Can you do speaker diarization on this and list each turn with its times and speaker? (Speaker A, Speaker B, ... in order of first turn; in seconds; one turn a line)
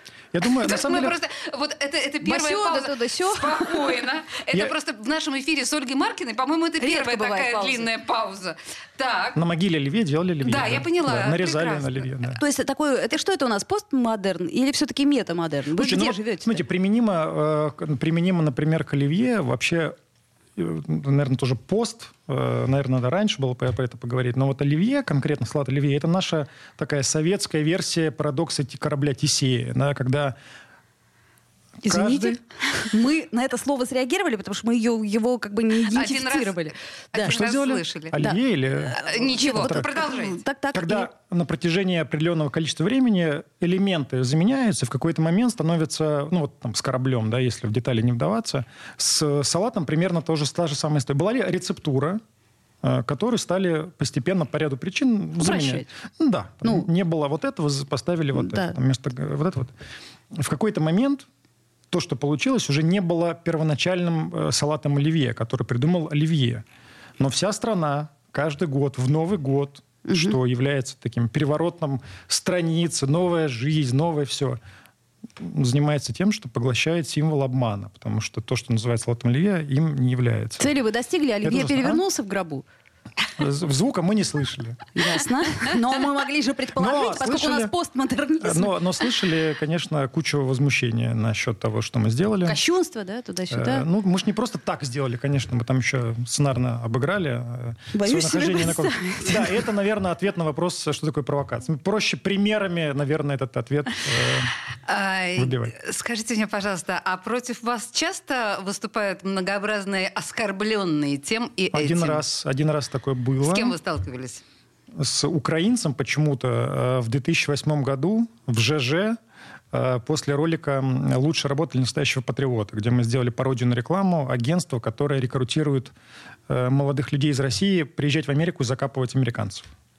Speaker A: 0.3-1.2
Speaker B: 0.6-9.4
Speaker C: 2.2-3.9
Speaker C: 6.8-7.9
Speaker A: 9.3-12.4
Speaker B: 10.4-12.1
Speaker C: 12.4-16.6
Speaker A: 15.7-19.9
Speaker A: 20.6-30.4
Speaker A: 31.8-32.4
Speaker C: 31.8-37.4
Speaker B: 35.9-38.2
Speaker A: 37.2-39.9
Speaker C: 38.9-41.1
Speaker B: 38.9-40.4
Speaker A: 40.7-52.2
Speaker A: 52.8-59.7
Speaker C: 55.4-55.9
Speaker C: 58.4-58.8
Speaker A: 60.3-61.3
Speaker A: 61.9-66.6
Speaker A: 67.2-74.6
Speaker C: 70.0-70.4
Speaker A: 75.4-80.7
Speaker C: 80.6-82.7
Speaker A: 81.4-82.0
Speaker A: 83.4-84.8
Speaker C: 85.0-88.8
Speaker A: 86.8-87.7
Speaker A: 88.4-92.6
Speaker C: 92.5-93.9
Speaker A: 93.5-104.5
Speaker C: 97.9-99.5
Speaker B: 104.9-112.2
Speaker A: 105.4-105.7
Speaker A: 111.7-113.8
Speaker B: 113.4-114.4
Speaker A: 115.0-119.2
Speaker A: 119.7-125.9
Speaker A: 126.5-129.7